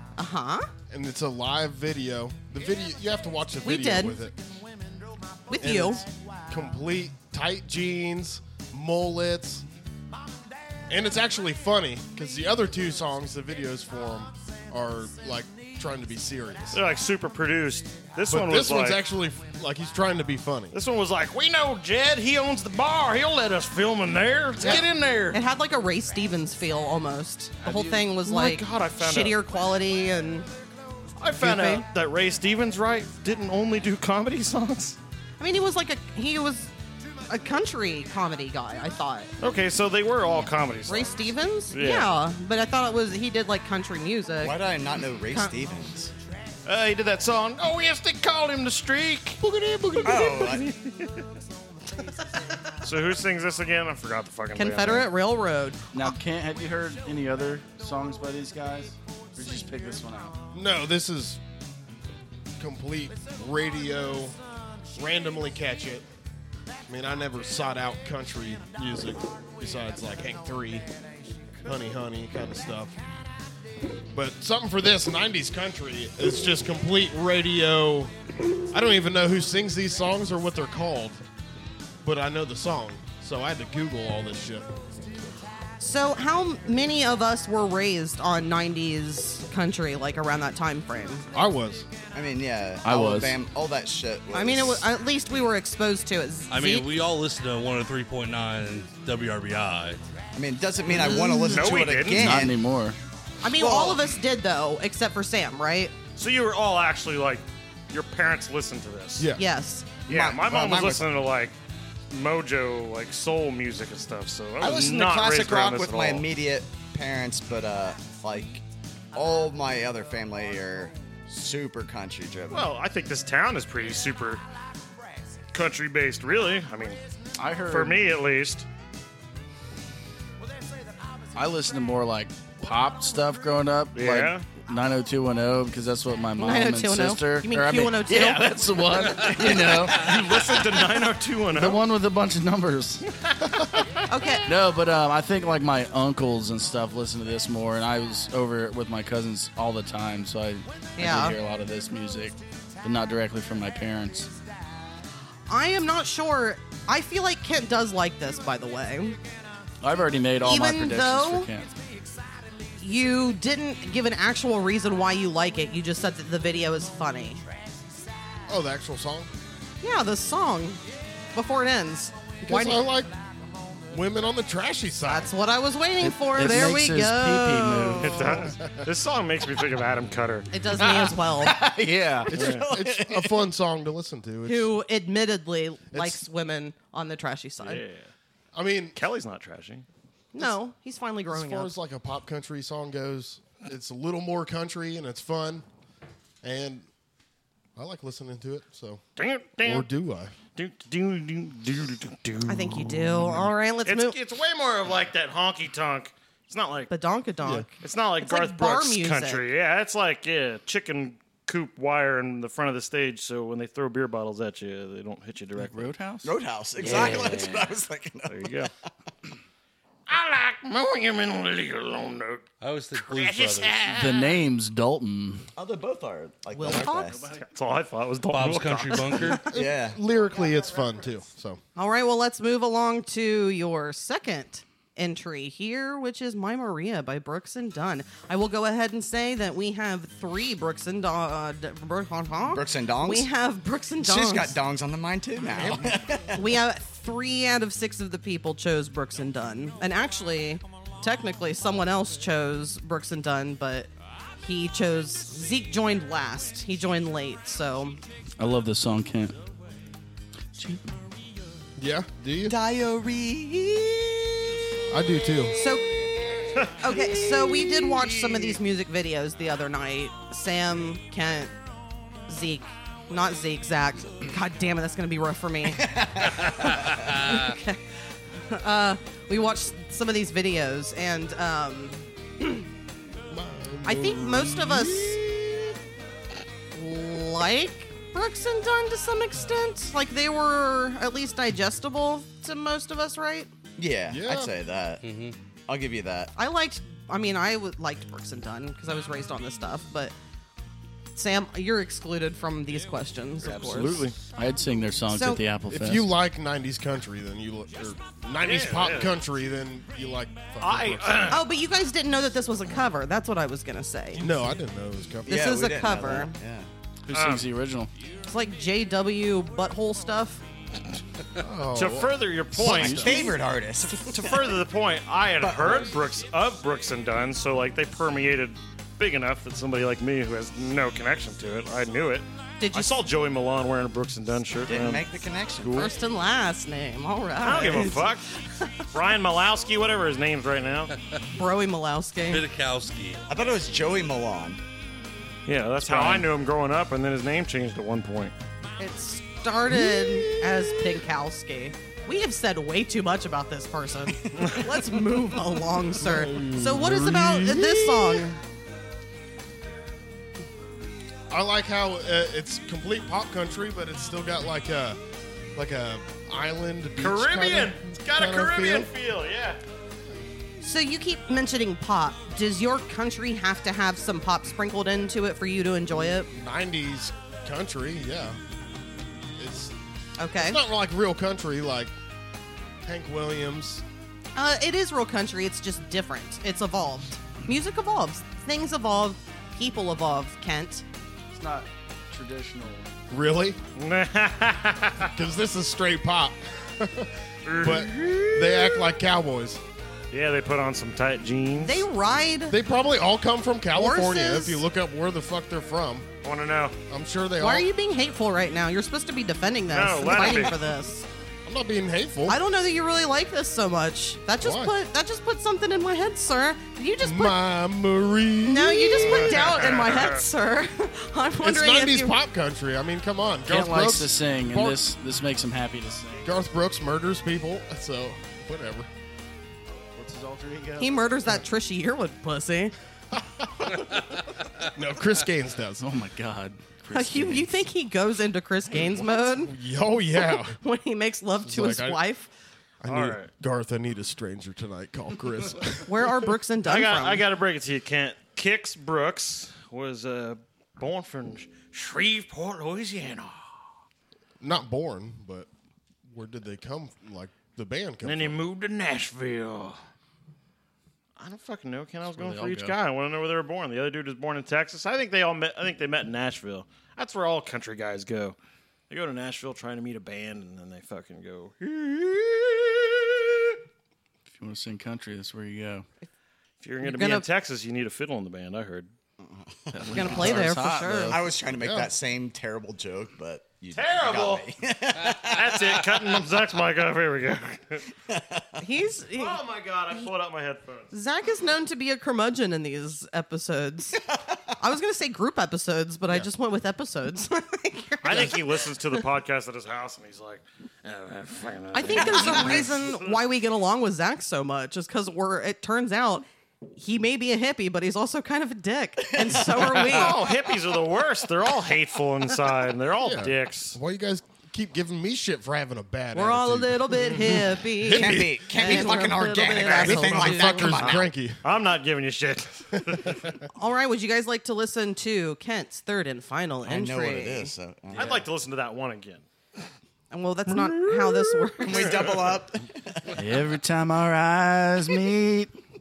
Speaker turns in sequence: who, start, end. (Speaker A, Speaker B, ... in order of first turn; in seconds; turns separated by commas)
Speaker A: 0.2-0.7, Speaker B: 0.9-4.4, Speaker A: 3.6-4.2, Speaker A: 5.5-6.0, Speaker B: 5.6-9.7, Speaker B: 10.9-16.8, Speaker C: 16.7-19.0, Speaker B: 18.3-20.8, Speaker C: 20.7-25.4, Speaker B: 24.6-24.9, Speaker A: 25.3-30.5, Speaker D: 27.6-28.1, Speaker C: 28.2-29.4, Speaker C: 31.2-35.0, Speaker A: 31.4-31.8, Speaker A: 35.4-36.7, Speaker A: 37.3-39.3, Speaker C: 39.4-42.1, Speaker A: 40.9-44.6, Speaker E: 44.4-46.1, Speaker C: 46.6-51.2, Speaker B: 49.4-50.5, Speaker E: 50.0-50.6, Speaker C: 52.8-55.1, Speaker A: 54.5-56.1, Speaker D: 55.9-60.4, Speaker B: 60.5-61.4, Speaker B: 62.6-64.4, Speaker B: 64.9-66.0, Speaker B: 66.9-70.9, Speaker B: 71.6-73.0, Speaker B: 74.1-78.1, Speaker B: 78.7-81.2, Speaker B: 82.0-84.7, Speaker A: 85.8-91.2, Speaker B: 91.3-91.9, Speaker E: 92.1-94.9, Speaker D: 92.8-93.3, Speaker A: 94.3-96.9, Speaker F: 96.5-100.0, Speaker E: 100.3-102.6, Speaker A: 101.0-101.8, Speaker C: 101.1-102.4, Speaker D: 102.1-103.0, Speaker A: 103.4-105.9, Speaker E: 103.6-104.0, Speaker C: 106.2-109.3, Speaker B: 109.2-109.4, Speaker A: 109.4-109.9, Speaker E: 110.1-111.0, Speaker C: 110.1-111.5, Speaker C: 112.1-116.2, Speaker E: 114.6-122.7, Speaker C: 122.5-124.4, Speaker C: 125.5-127.0, Speaker D: 127.4-128.0, Speaker C: 127.7-128.7, Speaker D: 131.3-140.2, Speaker C: 133.9-134.5, Speaker A: 136.4-138.5, Speaker C: 139.3-141.8, Speaker D: 141.5-143.0, Speaker A: 144.1-144.5, Speaker D: 144.4-154.3, Speaker A: 151.0-151.4, Speaker A: 155.5-159.2, Speaker D: 159.8-161.8, Speaker A: 160.4-161.5, Speaker A: 162.8-167.4, Speaker B: 168.5-169.3, Speaker A: 169.8-170.8, Speaker A: 171.3-172.8, Speaker B: 172.4-173.1, Speaker B: 173.9-175.3, Speaker A: 175.1-178.4, Speaker D: 176.0-178.4, Speaker C: 178.0-180.5, Speaker B: 178.5-178.8, Speaker A: 180.5-181.6, Speaker D: 180.8-182.3, Speaker B: 182.3-184.7, Speaker E: 182.3-183.4, Speaker C: 182.3-182.7, Speaker A: 184.4-187.8, Speaker B: 185.9-186.2, Speaker C: 187.6-188.1, Speaker B: 188.5-189.0, Speaker C: 188.9-189.8, Speaker A: 190.3-191.7, Speaker B: 191.3-195.6, Speaker B: 196.4-196.8, Speaker B: 197.8-199.0, Speaker C: 199.2-199.9, Speaker B: 199.6-200.3, Speaker C: 200.6-206.9, Speaker A: 202.5-204.2, Speaker A: 206.9-209.4, Speaker C: 207.8-215.9, Speaker D: 215.6-216.3, Speaker E: 216.2-218.5, Speaker C: 216.8-217.7, Speaker C: 218.3-218.7, Speaker C: 220.1-224.4, Speaker F: 222.6-223.8, Speaker D: 223.8-225.5, Speaker E: 225.6-227.3, Speaker A: 226.5-227.3, Speaker C: 227.4-229.4, Speaker F: 228.3-229.5, Speaker E: 229.5-230.0, Speaker B: 229.5-231.6, Speaker A: 231.8-244.5, Speaker E: 242.5-243.3, Speaker E: 244.0-246.4, Speaker B: 245.5-246.2, Speaker A: 246.3-253.9, Speaker A: 254.4-258.0, Speaker D: 258.4-259.4, Speaker D: 260.6-260.9, Speaker B: 261.8-262.6, Speaker A: 262.4-264.1, Speaker B: 264.9-265.6, Speaker A: 265.5-266.0, Speaker A: 266.7-271.5, Speaker E: 266.9-268.2, Speaker A: 272.3-277.8, Speaker E: 275.8-277.1, Speaker A: 278.4-282.7, Speaker B: 283.3-285.8, Speaker A: 283.8-285.2, Speaker A: 286.7-293.5, Speaker E: 293.8-295.0, Speaker B: 294.1-294.5, Speaker F: 295.0-295.4, Speaker E: 295.7-296.3, Speaker A: 296.4-300.1, Speaker A: 301.1-304.1, Speaker C: 303.4-304.1, Speaker D: 304.4-306.1, Speaker A: 305.1-305.4, Speaker B: 305.7-311.3, Speaker C: 308.4-309.1, Speaker C: 310.6-311.4, Speaker A: 311.3-314.3, Speaker B: 314.2-315.3, Speaker E: 315.2-316.7, Speaker A: 315.3-316.3, Speaker D: 317.1-317.9, Speaker C: 317.1-317.4, Speaker A: 318.2-320.4, Speaker B: 321.4-323.3, Speaker C: 321.7-335.1, Speaker E: 322.6-324.5, Speaker E: 325.4-326.0, Speaker A: 332.6-332.9, Speaker E: 334.6-335.9, Speaker C: 335.6-335.9, Speaker A: 335.7-338.7, Speaker C: 337.4-338.3, Speaker C: 338.9-340.9, Speaker A: 341.3-342.4, Speaker F: 342.3-343.2, Speaker E: 343.3-344.6, Speaker C: 345.4-348.3, Speaker A: 348.8-358.4, Speaker B: 349.7-351.0, Speaker E: 354.2-354.6, Speaker B: 356.0-358.3, Speaker B: 361.3-365.0, Speaker B: 365.5-368.9, Speaker C: 367.0-369.6, Speaker A: 370.6-376.3, Speaker B: 376.3-378.4, Speaker B: 379.4-379.8, Speaker A: 380.2-380.6, Speaker B: 380.4-381.9, Speaker B: 382.8-383.8, Speaker A: 384.4-390.8, Speaker D: 391.3-392.9, Speaker B: 393.1-393.6, Speaker C: 393.8-395.1, Speaker B: 395.1-399.6, Speaker C: 397.4-398.9, Speaker C: 400.1-401.9, Speaker A: 401.6-402.6, Speaker B: 402.5-406.1, Speaker A: 403.7-404.6, Speaker C: 406.2-406.7, Speaker B: 406.9-407.7, Speaker A: 407.4-411.1, Speaker C: 409.7-410.6, Speaker B: 411.4-412.4, Speaker A: 412.3-417.4, Speaker B: 414.4-414.7, Speaker B: 417.0-419.5, Speaker A: 418.4-422.2, Speaker C: 419.0-420.2, Speaker B: 421.4-424.8, Speaker D: 423.5-426.3, Speaker B: 426.2-428.9, Speaker D: 429.9-431.0, Speaker A: 430.8-432.7, Speaker B: 433.1-434.1, Speaker B: 434.7-435.9, Speaker D: 435.8-437.6, Speaker A: 436.9-439.5, Speaker B: 439.4-440.6, Speaker A: 440.2-442.3, Speaker B: 441.4-442.0, Speaker B: 442.8-446.3, Speaker C: 442.9-443.3, Speaker A: 445.9-447.2, Speaker C: 446.6-453.4, Speaker B: 454.4-455.5, Speaker B: 456.1-458.4, Speaker C: 458.0-459.8, Speaker C: 461.2-468.4, Speaker D: 462.1-462.7, Speaker C: 468.9-473.6, Speaker D: 474.4-475.8, Speaker C: 476.6-478.9, Speaker A: 476.8-477.3, Speaker E: 479.2-486.2, Speaker D: 479.7-481.2, Speaker A: 479.9-481.2, Speaker B: 481.6-481.9, Speaker C: 483.7-484.5, Speaker C: 485.0-487.8, Speaker E: 488.1-488.6, Speaker A: 488.6-489.4, Speaker C: 489.2-490.9, Speaker A: 490.9-494.0, Speaker A: 494.6-498.7, Speaker C: 498.0-503.2, Speaker A: 501.7-506.2, Speaker E: 502.2-502.5, Speaker A: 506.8-510.3, Speaker E: 509.1-510.5, Speaker C: 509.8-513.8, Speaker B: 513.0-521.4, Speaker A: 516.1-520.8, Speaker E: 517.9-521.1, Speaker C: 520.8-523.3, Speaker B: 522.7-523.3, Speaker A: 523.5-527.5, Speaker E: 526.6-528.2, Speaker D: 527.9-528.2, Speaker C: 527.9-529.2, Speaker A: 530.1-532.0, Speaker B: 530.9-531.4, Speaker E: 531.6-533.3, Speaker C: 531.7-532.4, Speaker D: 533.1-535.5